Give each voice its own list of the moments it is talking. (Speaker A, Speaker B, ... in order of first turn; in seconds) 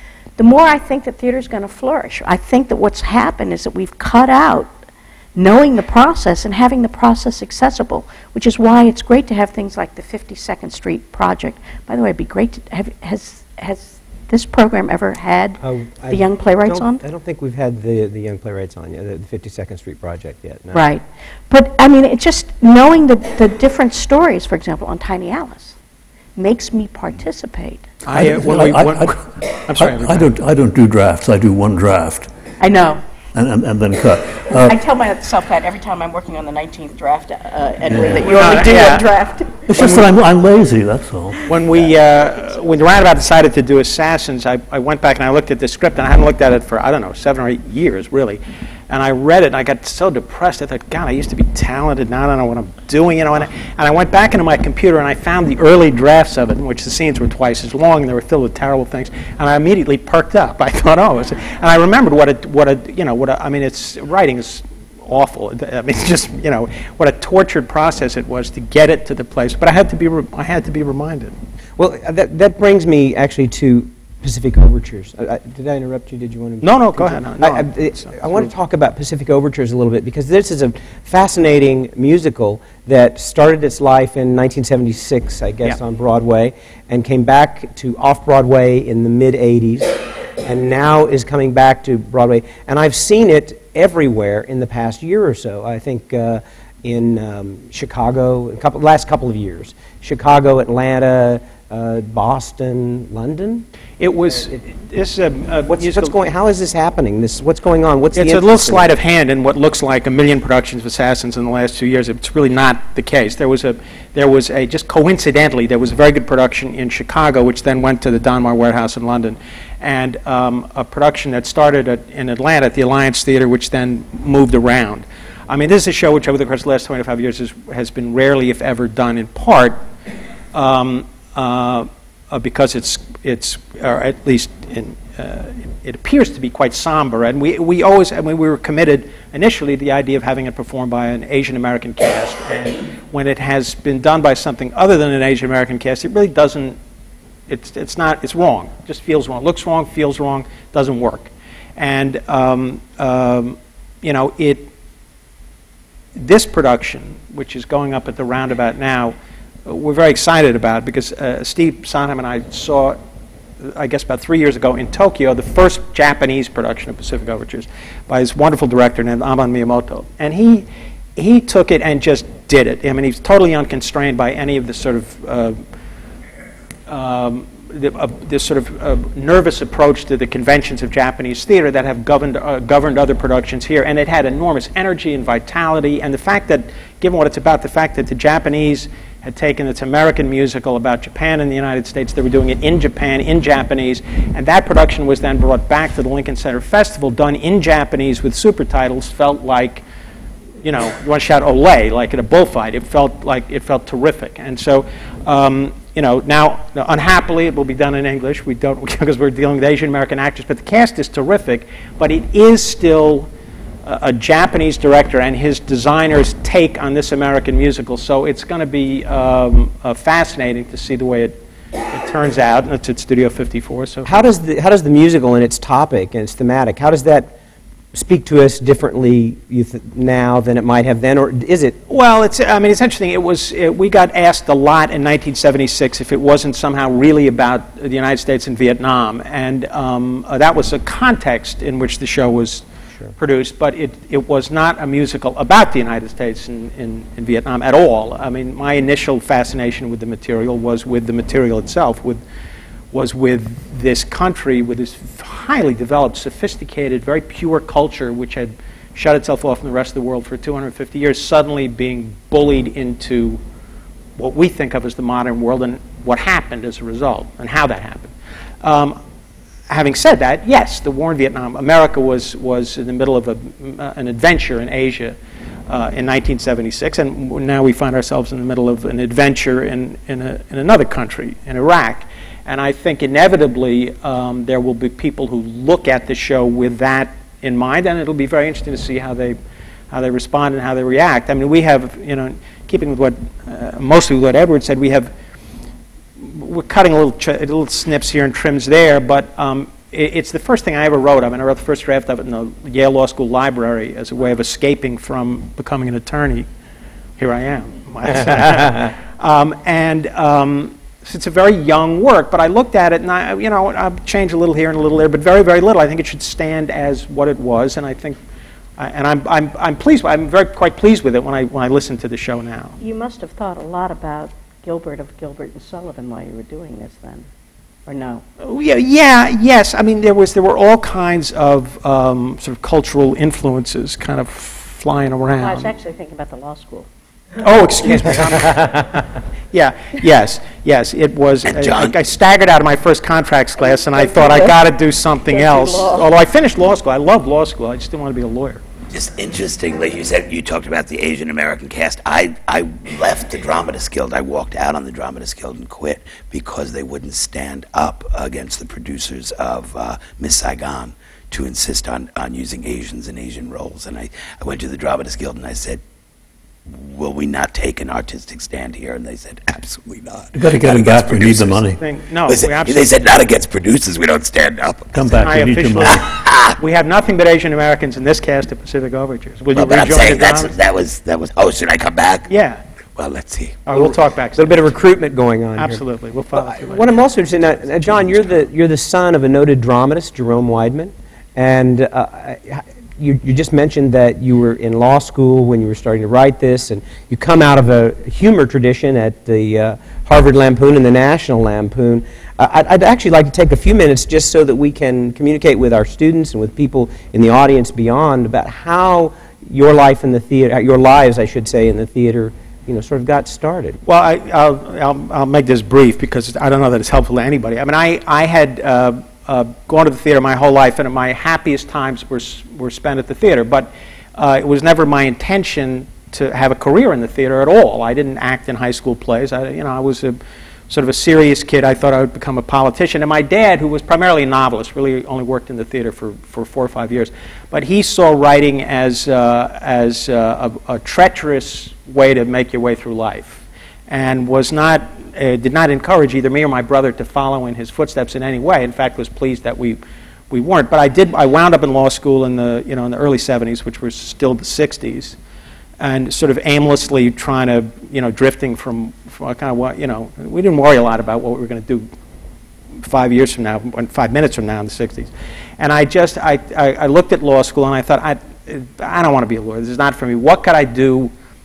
Speaker A: 0.4-4.7, 5.3-17.0, 20.7-25.8, 26.4-27.9, 32.6-33.0, 34.6-39.9, 322.8-327.3, 327.9-328.2, 335.4-336.9, 343.9-344.6, 345.3-346.0
Speaker B: 15.6-20.8, 71.8-103.7, 105.7-108.8, 224.1-227.3, 227.9-231.8, 338.4-339.0, 383.7-385.8, 386.3-413.8
Speaker C: 28.0-30.3, 38.2-39.1, 39.8-40.0, 41.5-71.4, 76.6-78.5, 104.0-106.2, 108.1-129.8, 130.5-146.8, 147.5-154.7, 156.2-163.0, 163.6-175.6, 176.9-199.8, 200.6-213.3, 213.8-221.4, 221.9-224.3, 231.9-252.2, 252.9-263.4, 264.2-269.0, 269.7-275.2, 275.7-289.4, 289.9-295.1, 296.2-306.5, 307.2-318.2, 318.8-322.8, 328.4-335.7, 337.4-338.8, 339.5-348.6, 371.8-372.9, 375.1-376.1, 376.6-380.5, 382.3-382.6, 383.6-384.6, 385.6-388.4, 413.8-430.2, 430.7-455.2, 455.8-461.9, 462.8-471.1
Speaker D: 28.1-32.3, 33.3-34.8, 37.8-38.3, 39.7-41.6, 370.3-371.8, 374.9-376.0
Speaker E: 341.4-342.0, 348.9-365.8, 366.7-371.7, 372.3-375.2, 375.8-376.6, 379.5-382.3, 382.9-383.7